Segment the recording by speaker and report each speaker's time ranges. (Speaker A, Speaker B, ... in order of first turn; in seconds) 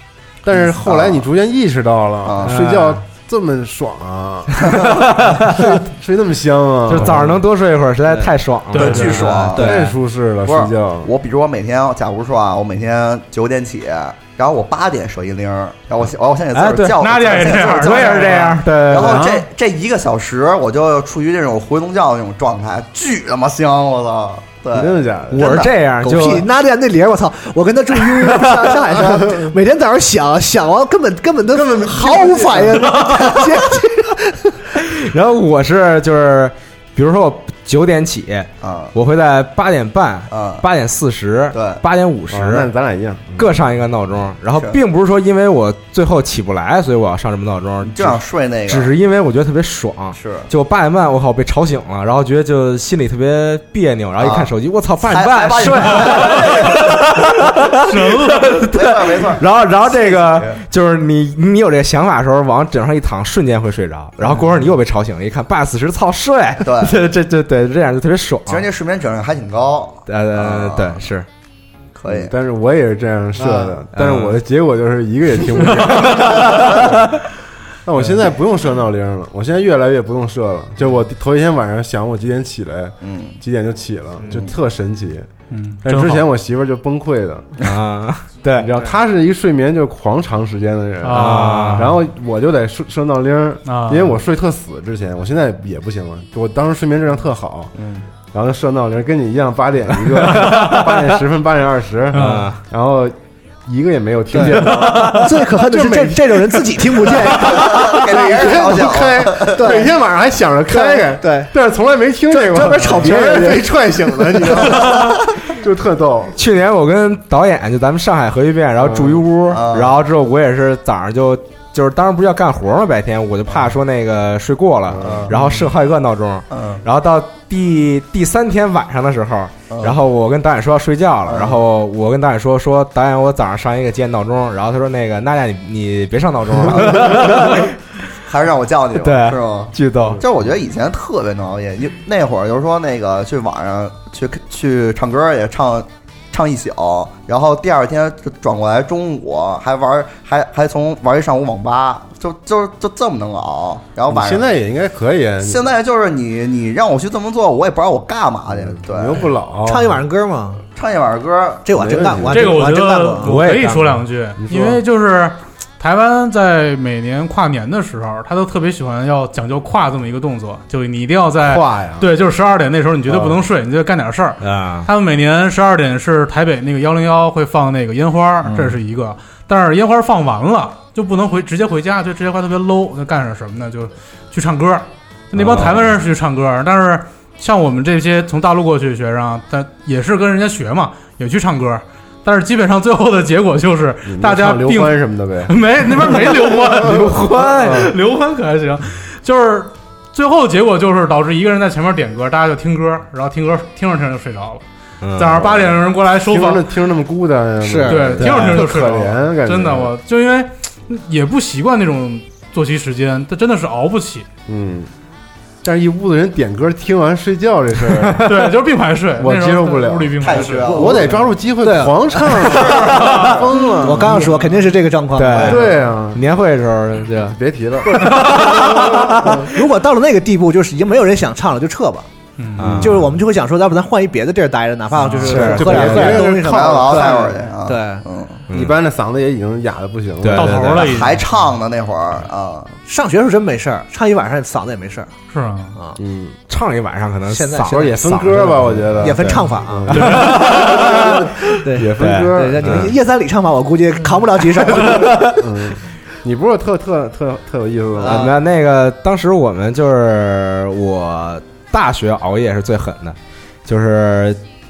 Speaker A: 0.4-7.4, 9.6-11.1, 18.9-19.4, 24.7-25.6, 31.6-32.7, 42.3-43.5, 72.1-77.0, 77.8-85.3, 85.8-87.5, 88.6-97.7, 98.3-116.3, 118.8-119.2, 124.9-125.4, 154.1-155.7, 158.5-159.9, 161.7-162.6, 164.4-164.8, 171.4-172.1, 173.1-173.4, 185.3-185.9, 194.0-197.9, 206.2-209.9, 214.5-214.9, 215.6-218.6, 219.2-224.4, 225.4-226.2, 227.3-229.5, 235.3-237.2, 238.5-240.7, 246.0-246.4, 247.7-251.2, 251.7-252.9, 255.2-258.3
Speaker B: 0.5-1.2, 2.2-2.6, 8.7-9.7, 10.4-25.7, 38.6-38.9, 40.3-40.6, 41.5-41.8, 47.8-48.9, 50.1-50.5, 54.2-57.5, 58.7-60.6, 66.6-67.0, 68.5-71.0, 71.9-72.3, 83.0-83.4, 97.8-98.1, 107.4-109.7, 114.5-115.1, 119.5-120.0, 125.0-125.3, 126.5-126.8, 129.7-130.0, 131.2-131.6, 136.6-137.7, 138.3-154.4, 155.4-159.2, 160.8-162.1, 220.2-221.2, 222.4-223.4, 236.0-238.4, 240.8-242.8
Speaker C: 2.4-3.0, 4.9-5.7, 6.9-9.9, 16.5-19.3, 25.3-26.4, 34.8-42.7, 43.4-68.7, 70.1-71.2, 73.9-74.4, 76.0-77.1, 87.6-88.7, 91.1-91.9, 102.1-102.6, 116.3-137.7, 138.9-140.2, 163.2-164.0, 174.4-174.9, 196.8-197.9, 205.0-205.6, 208.2-208.7, 225.1-227.4, 228.0-229.5, 232.6-233.2, 235.2-236.2, 238.5-238.7, 240.2-241.0, 246.5-247.9, 248.9-249.4, 249.9-251.4, 251.9-252.9, 254.9-255.3, 258.0-264.4
Speaker D: 8.7-9.4, 17.0-18.6, 57.9-58.5, 85.5-86.2, 91.0-91.9, 93.7-94.2, 102.1-102.5, 162.3-204.6, 205.2-206.6, 207.9-214.3, 218.2-220.9, 223.0-223.3, 232.4-232.9, 235.1-235.5, 240.3-241.2, 245.3-245.8, 250.0-250.4
Speaker E: 26.0-34.6, 73.4-73.8, 104.3-107.9, 109.4-109.9, 110.7-111.5, 112.3-113.7, 159.7-160.6, 161.6-163.3, 207.6-208.0, 221.6-222.5, 223.8-225.6, 229.2-232.1, 232.8-238.0, 242.8-245.1, 247.3-255.2, 258.0-258.3